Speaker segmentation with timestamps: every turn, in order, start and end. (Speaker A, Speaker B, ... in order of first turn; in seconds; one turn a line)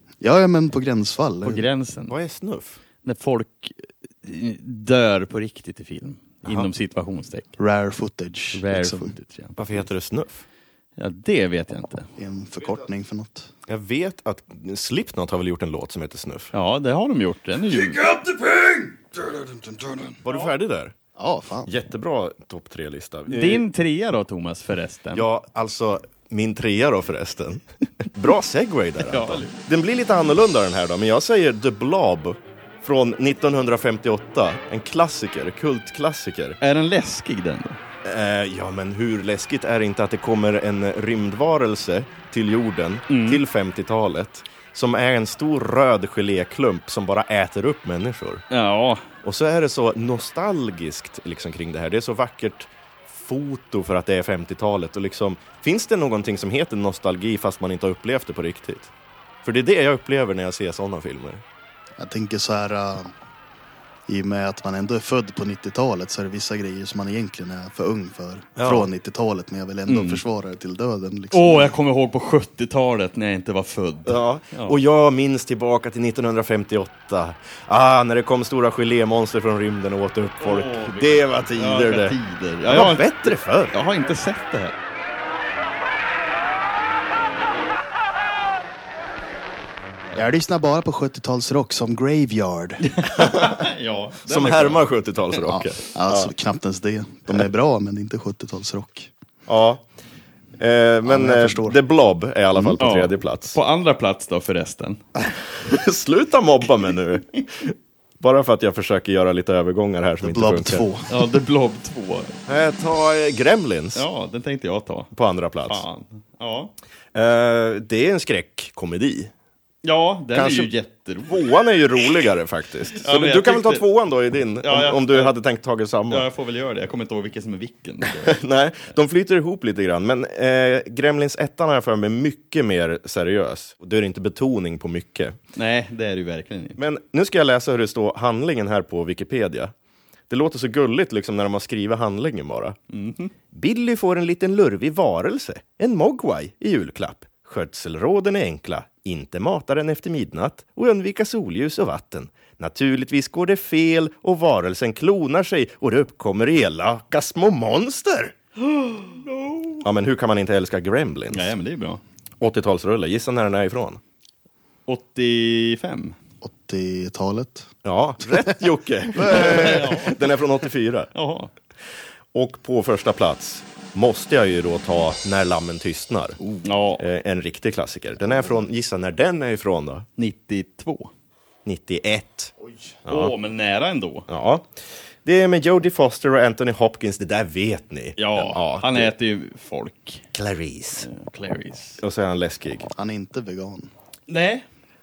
Speaker A: 0.2-1.6
Speaker B: 1.4-2.1
Speaker C: 2.1-2.8
Speaker B: 3.0-7.5
Speaker A: 7.6-9.1
Speaker B: 8.5-9.7
Speaker C: 9.6-10.4
Speaker B: 11.0-12.1
Speaker A: 12.2-13.5
Speaker C: 13.7-16.5
Speaker B: 16.5-18.0
Speaker A: 17.7-20.2
Speaker C: 20.2-20.9
Speaker A: 21.1-21.7
Speaker C: 21.6-23.6
Speaker B: 23.3-25.2
Speaker C: 25.1-36.6
Speaker B: 29.0-29.6
Speaker B: 36.6-37.8
Speaker C: 38.0-48.4
Speaker B: 43.1-43.4
Speaker B: 48.5-49.0
Speaker C: 49.2-58.9
Speaker C: 59.4-61.4
Speaker A: 62.0-63.1
Speaker A: 64.1-71.8
Speaker C: 68.5-68.9
Speaker B: 69.9-70.2
Speaker B: 71.3-74.8
Speaker C: 74.0-83.8
Speaker B: 80.4-84.8
Speaker A: 90.1-93.0
Speaker B: 92.8-94.9
Speaker C: 93.2-93.6
Speaker C: 94.3-96.3
Speaker A: 95.5-99.1
Speaker C: 99.5-99.8
Speaker C: 100.6-103.6
Speaker A: 101.0-101.8
Speaker B: 102.8-105.0
Speaker C: 105.2-110.8
Speaker A: 110.2-111.2
Speaker B: 111.1-112.4
Speaker C: 112.5-114.0
Speaker B: 113.9-115.1
Speaker C: 115.1-115.8
Speaker B: 115.7-116.7
Speaker C: 117.1-119.3
Speaker B: 119.8-121.6
Speaker C: 120.3-120.7
Speaker C: 121.2-126.2
Speaker B: 122.9-123.9
Speaker B: 124.6-125.3
Speaker B: 126.1-128.4
Speaker C: 128.1-135.4
Speaker B: 135.5-136.8
Speaker C: 136.8-139.7
Speaker C: 140.3-142.8
Speaker B: 142.9-143.3
Speaker C: 143.5-158.3
Speaker B: 158.6-159.8
Speaker C: 159.8-161.5
Speaker B: 161.3-162.0
Speaker C: 162.4-164.0
Speaker B: 164.9-166.2
Speaker A: 166.4-167.7
Speaker C: 167.8-171.1
Speaker A: 168.3-168.6
Speaker A: 169.2-169.8
Speaker B: 169.2-170.3
Speaker B: 171.1-171.5
Speaker C: 172.3-176.4
Speaker B: 176.6-177.0
Speaker C: 177.0-180.1
Speaker B: 180.2-181.1
Speaker C: 181.6-182.5
Speaker C: 183.0-183.3
Speaker B: 183.1-184.3
Speaker C: 184.3-189.1
Speaker B: 188.2-190.2
Speaker C: 190.3-191.1
Speaker B: 191.0-192.0
Speaker C: 192.0-192.9
Speaker A: 192.9-193.9
Speaker B: 194.3-194.6